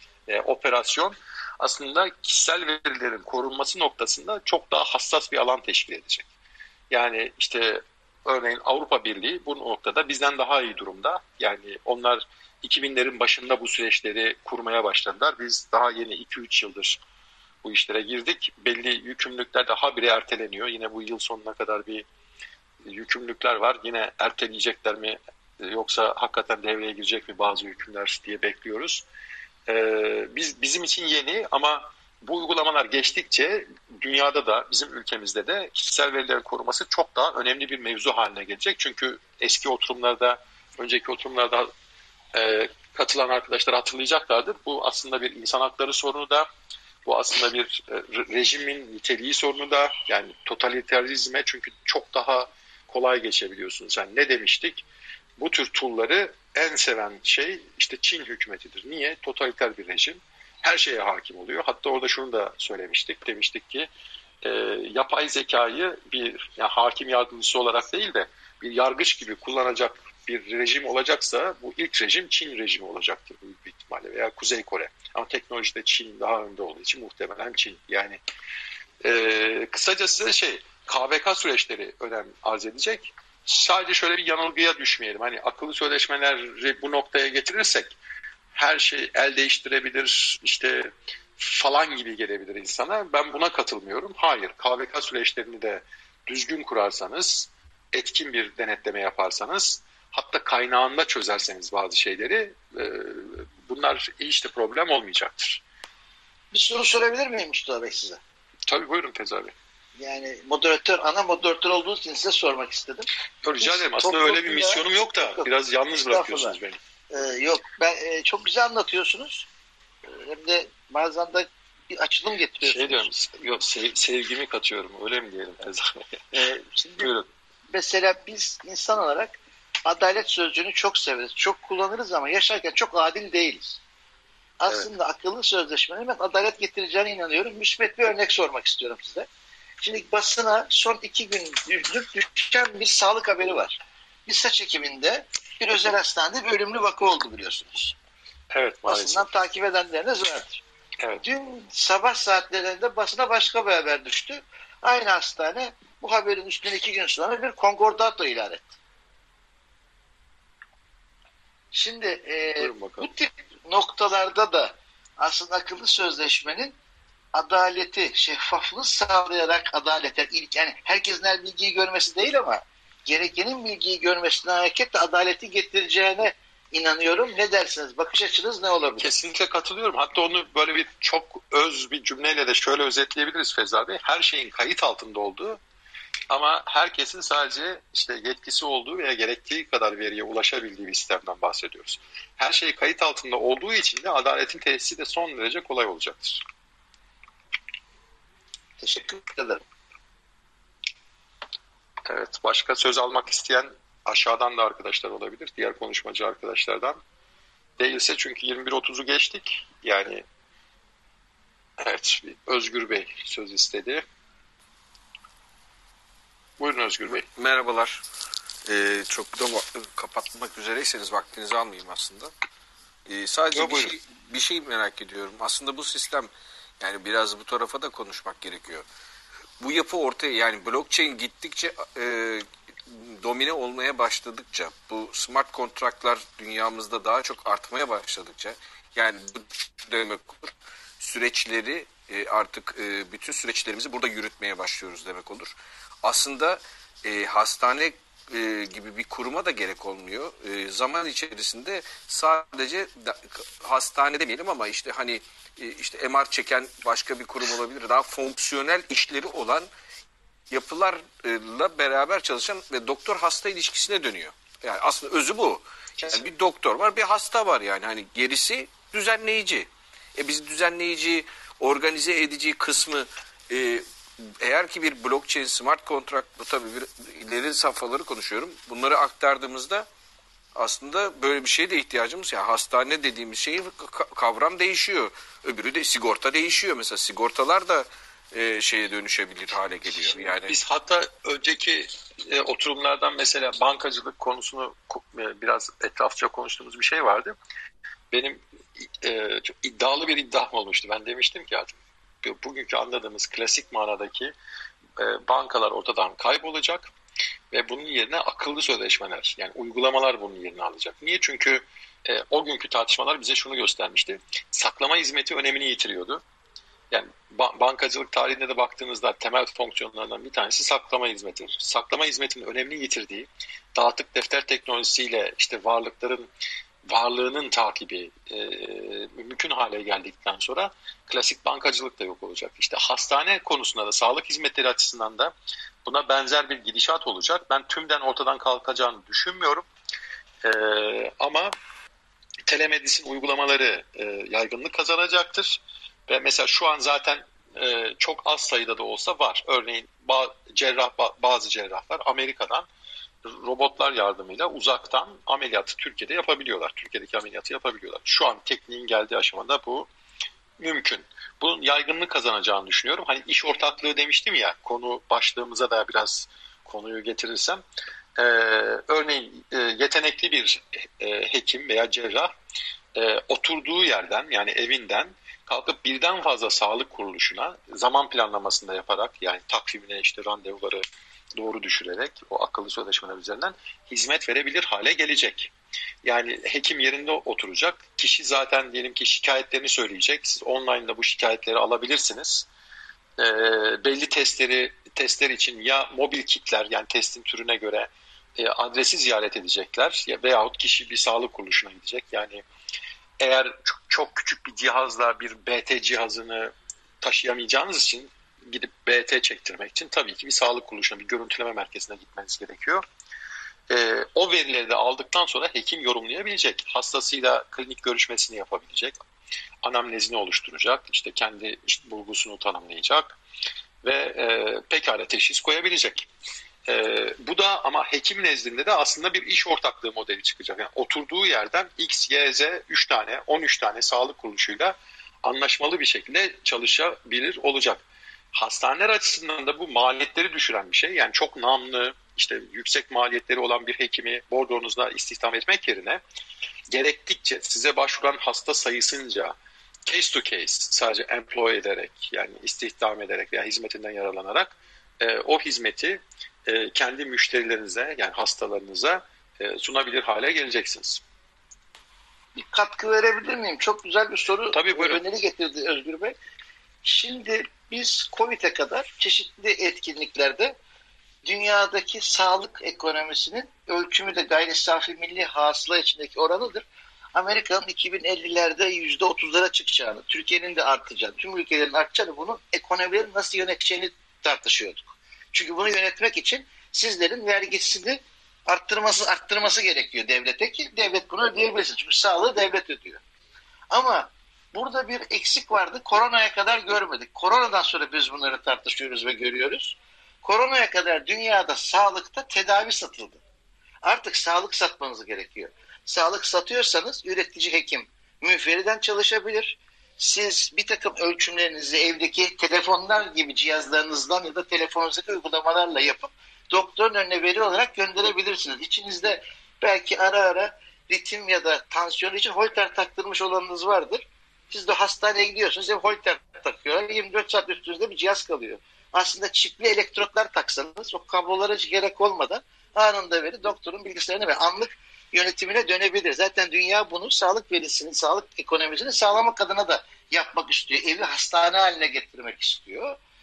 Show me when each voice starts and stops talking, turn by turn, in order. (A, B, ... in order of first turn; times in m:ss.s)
0:00.3-0:06.3 A
0:06.9-0:17.0 A
0:17.6-0:22.1 A
0:22.8-0:29.0 A
0:29.7-0:41.7 A
0:42.3-0:46.5 A
0:47.0-0:54.8 A
0:55.4-1:03.9 A
1:04.4-1:18.2 A
1:19.0-1:28.0 A
1:28.6-1:45.6 A
1:46.5-1:48.2 B
1:48.7-1:49.5 A
1:50.0-1:53.1 B
1:53.4-1:56.8 A
1:53.6-1:56.6 B
1:57.1-1:59.5 B
2:00.1-2:03.1 B
2:02.6-2:07.3 A
2:06.3-2:07.1 B
2:07.7-2:13.8 B
2:14.6-2:19.3 B
2:19.8-2:28.0 B
2:28.5-2:29.3 A
2:28.9-2:30.6 B
2:31.2-2:38.7 B
2:41.7-2:46.8 B
2:42.6-2:43.1 A
2:47.3-2:59.1 B
2:59.0-3:05.6 A
3:06.3-3:16.4 A
3:18.8-3:19.6 B
3:22.1-3:27.0 A
3:27.8-3:30.2 A
3:31.8-3:34.0 A
3:36.6-3:37.3 A
3:37.1-3:38.0 C
3:38.6-3:42.3 C
3:43.1-3:48.8 C
3:43.5-3:44.0 A
3:49.6-4:19.7 C
4:20.5-4:39.9 C
4:26.0-4:26.2 A
4:40.6-4:50.6 C
4:50.0-4:57.4 A
4:58.1-5:04.3 A
5:05.0-5:06.9 A
5:07.5-5:16.2 A
5:16.9-5:26.3 A
5:26.9-5:35.3 A
5:35.8-5:39.6 A
5:40.4-5:41.6 A
5:42.5-5:52.7 A
5:53.2-5:59.9 A
6:00.6-6:07.6 A
6:08.2-6:12.3 A
6:13.0-6:20.8 A
6:21.4-6:25.5 A
6:26.0-6:32.5 A
6:33.2-6:42.4 A
6:43.2-6:52.8 A
6:53.7-6:59.0 A
6:59.6-7:03.2 A
7:03.8-7:06.1 A
7:06.7-7:26.0 A
7:26.7-7:29.4 A
7:29.9-7:41.0 A
7:42.4-7:46.2 B
7:44.5-7:45.0 A
7:46.8-7:50.6 B
7:51.2-8:13.0 B
8:13.7-8:23.2 B
8:23.8-9:03.0 B